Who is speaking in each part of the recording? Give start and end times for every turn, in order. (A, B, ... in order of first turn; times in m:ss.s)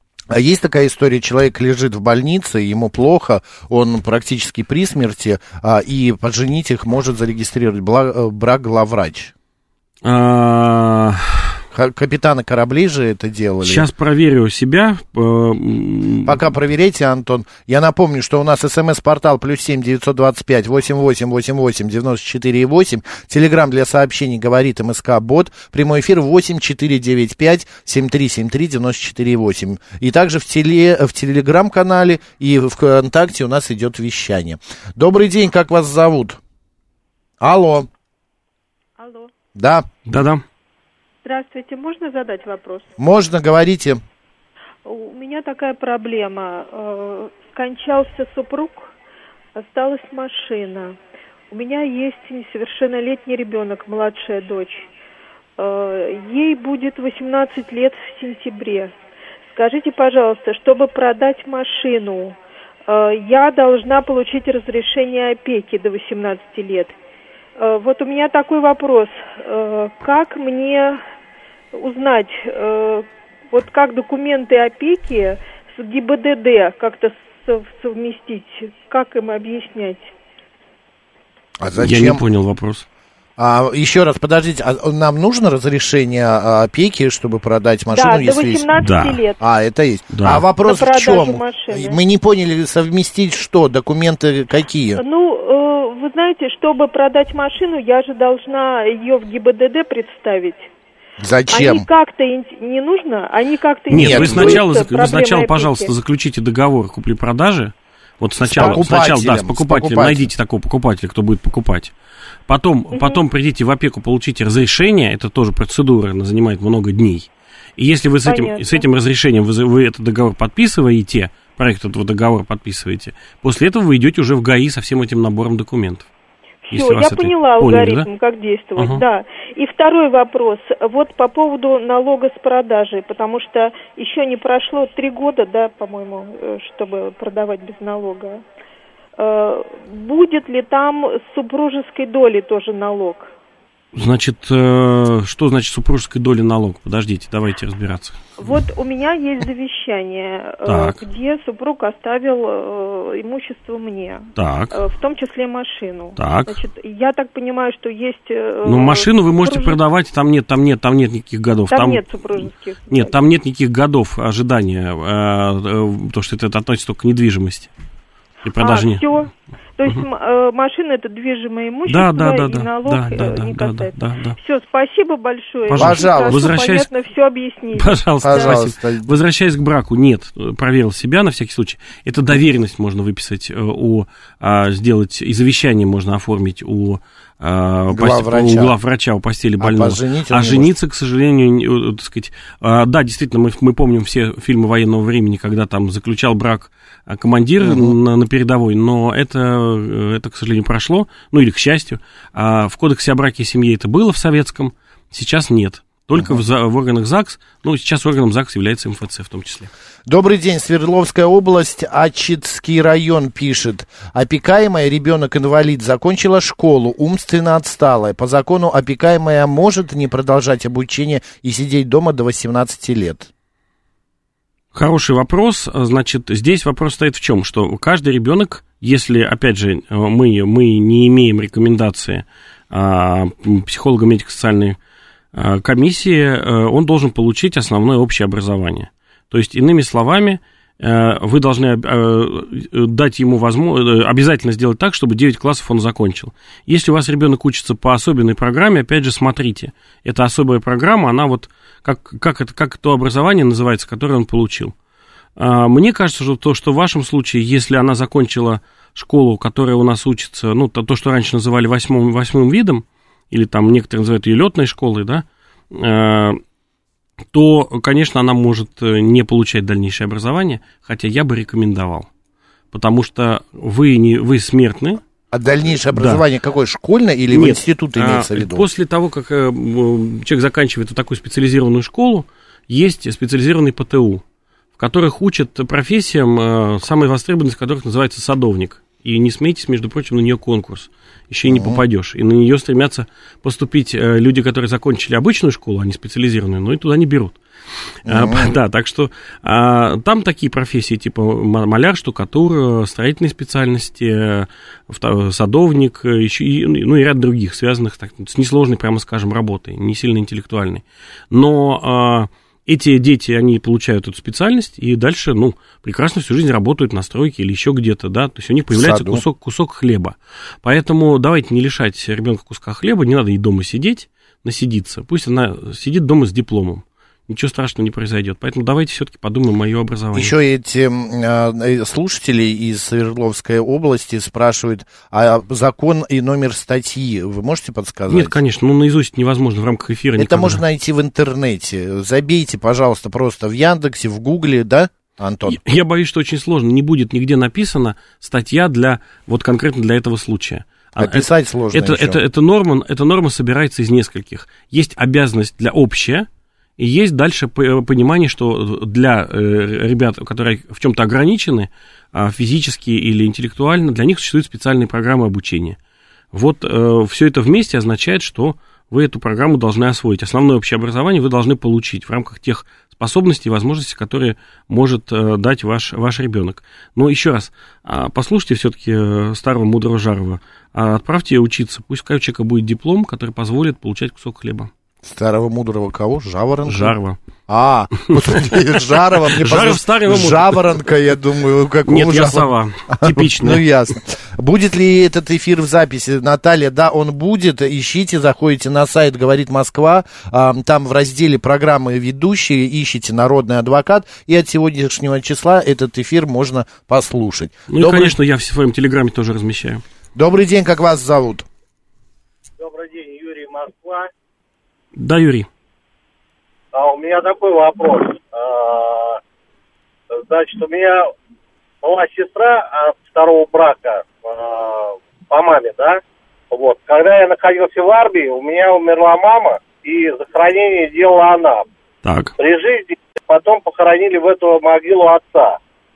0:00.3-0:09.3 A
0:10.0-0:11.6 B
0:11.7-0:13.9 A
0:13.6-0:16.4 B
0:16.3-0:36.4 A
0:37.4-0:37.9 A
0:39.0-0:39.3 C
0:39.6-0:39.9 A
0:40.1-0:40.4 B
0:41.2-0:42.9 C
0:43.0-0:44.0 A
0:44.8-0:48.9 C
0:49.6-0:51.0 C
0:51.5-0:54.9 C
0:55.6-0:58.9 C
0:59.5-1:02.4 C
1:02.9-1:07.0 C
1:07.6-1:11.0 C
1:11.7-1:20.1 C
1:21.6-1:22.2 A
1:21.8-1:22.8 B
1:23.4-1:28.7 A
1:27.9-1:29.4 C
1:28.8-1:29.2 B
1:29.4-1:35.0 A
1:30.1-1:30.4 B
1:30.6-1:32.0 C
1:35.0-1:40.7 C
1:41.2-1:41.8 A
1:41.5-1:45.9 C
1:43.9-1:51.9 B
1:43.9-1:44.6 A
1:48.4-1:50.3 A
1:48.6-1:48.8 C
1:52.5-2:06.1 B
1:52.9-1:53.2 C
1:58.3-1:58.8 C
2:06.7-2:18.4 C
2:06.7-2:08.1 B
2:08.8-2:09.0 B
2:19.2-2:23.3 C
2:23.9-2:28.6 B
2:28.4-2:39.8 C
2:30.6-2:31.0 B
2:34.4-2:34.7 B
2:36.2-2:36.6 B
2:38.6-2:42.0 B
2:41.7-2:43.2 C
2:42.9-2:47.7 B
2:48.4-2:49.1 B
2:48.6-2:58.6 C
2:51.9-2:54.4 B
2:55.7-2:56.9 B
2:55.8-2:56.5 A
2:57.8-3:29.7 B
2:58.2-2:59.1 A
3:07.9-3:08.8 A
3:09.6-3:10.7 A
3:17.6-3:17.9 A
3:26.2-3:26.4 A
3:30.1-3:43.3 A
3:44.7-3:54.8 B
3:55.3-4:14.7 B
4:15.4-4:26.4 B
4:27.3-4:32.1 B
4:32.7-4:35.0 B
4:35.3-4:38.7 A
4:35.9-4:36.2 B
4:37.3-4:44.2 B
4:44.8-4:57.4 B
4:51.5-4:51.8 A
4:58.0-5:30.3 B
4:58.1-4:58.5 A
5:18.7-5:19.2 A
5:30.1-5:38.4 A
5:38.1-5:40.6 B
5:40.2-5:45.6 A
5:45.4-5:56.3 B
5:51.0-5:52.2 A
5:56.8-6:05.8 B
6:06.3-6:24.7 B
6:25.0-6:27.0 A
6:26.7-6:27.2 B
6:27.5-6:48.2 A
6:28.1-6:28.6 B
6:29.3-6:30.7 B
6:31.9-6:33.6 B
6:47.7-6:49.8 B
6:50.2-6:51.5 A
6:52.6-6:54.1 D
6:55.0-6:55.5 B
6:56.7-6:59.2 D
7:00.1-7:01.1 D
7:01.8-7:06.0 D
7:06.5-7:11.6 D
7:12.0-7:12.3 B
7:12.4-7:15.6 D